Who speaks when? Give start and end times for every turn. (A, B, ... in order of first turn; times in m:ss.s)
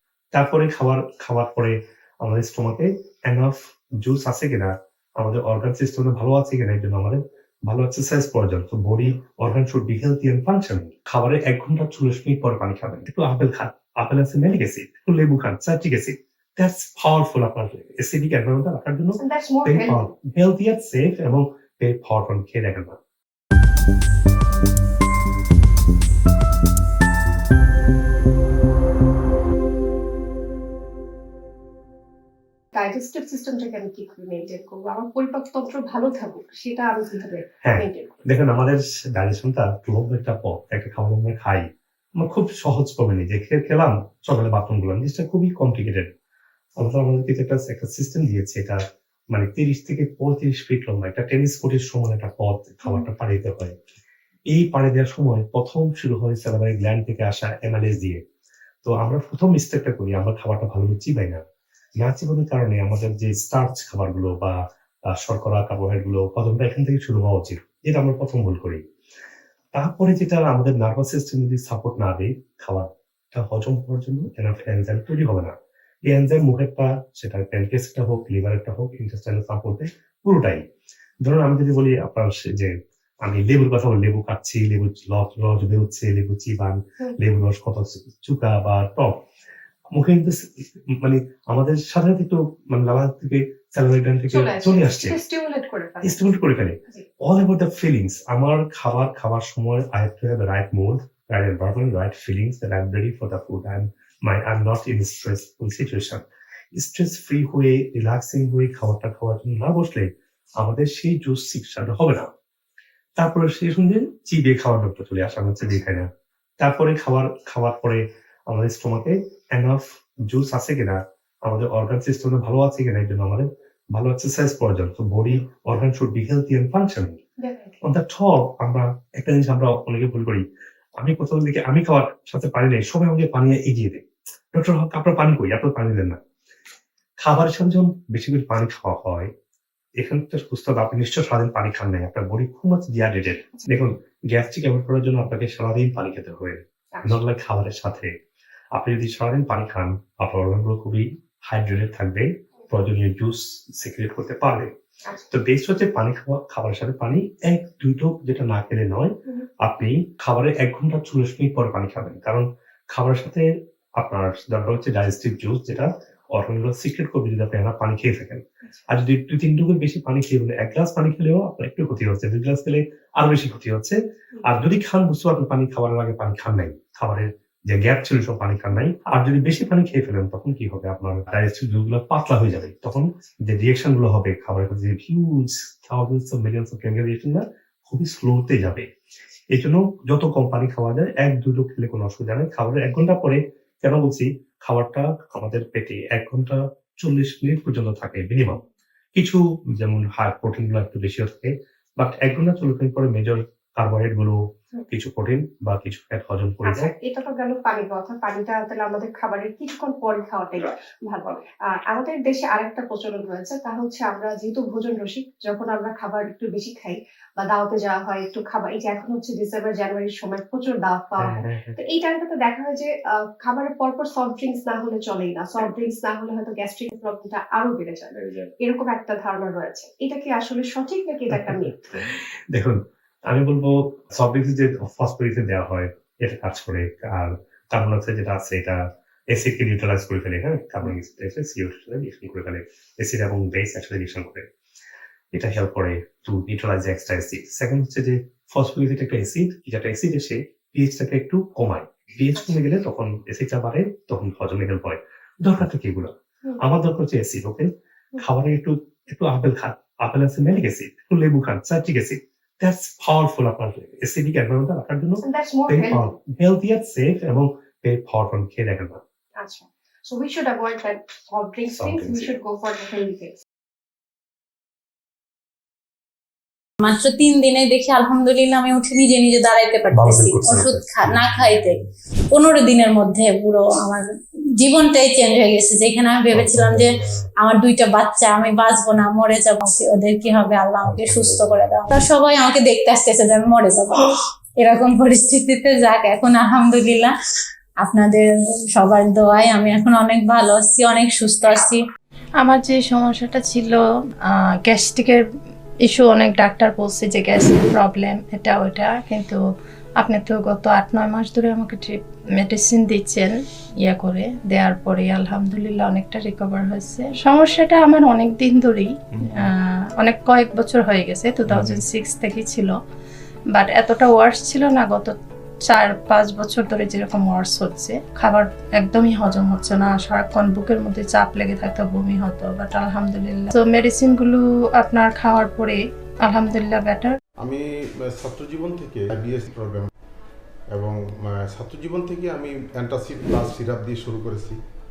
0:00.3-0:22.9 A
0:19.2-0:20.0 B
0:32.7-0:38.1 B
0:37.6-0:41.6 A
0:42.2-0:46.1 A
0:46.8-0:48.8 A
0:49.3-0:53.7 A
0:54.5-0:58.2 A
0:58.8-1:01.4 A
1:02.0-1:04.6 A
1:05.1-1:08.8 A
1:09.7-1:15.5 A
1:16.1-1:20.6 A
1:21.2-1:29.2 A
1:29.9-1:35.2 A
1:34.3-1:36.2 B
1:36.0-1:46.2 A
1:46.7-1:50.1 A
1:50.6-1:52.3 A
1:53.2-1:56.1 A
1:56.6-2:07.2 A
2:07.4-2:07.8 B
2:07.8-2:10.4 A
2:11.0-2:14.0 A
2:14.5-2:16.2 A
2:17.2-2:19.3 A
2:20.0-2:28.1 A
2:26.9-2:27.2 B
2:28.7-2:34.7 A
2:35.3-3:08.8 A
3:09.5-3:18.6 A
3:19.1-3:24.4 A
3:24.9-3:26.9 A
3:26.6-3:51.9 B
3:41.2-3:41.8 A
3:51.3-3:52.8 A
3:53.3-4:04.4 A
4:05.3-4:29.0 A
4:25.2-4:26.1 B
4:29.4-4:33.4 B
4:31.7-4:32.3 A
4:36.8-4:41.8 C
4:39.9-4:41.3 A
4:42.3-4:44.0 C
4:44.6-4:57.1 C
4:46.3-4:47.0 A
4:50.9-4:51.6 A
4:57.8-5:01.8 C
5:02.4-5:05.2 D
5:05.8-5:09.4 D
5:10.0-5:22.8 D
5:23.5-5:25.1 D
5:25.6-5:37.2 D
5:37.4-5:39.9 E
5:40.7-5:44.6 E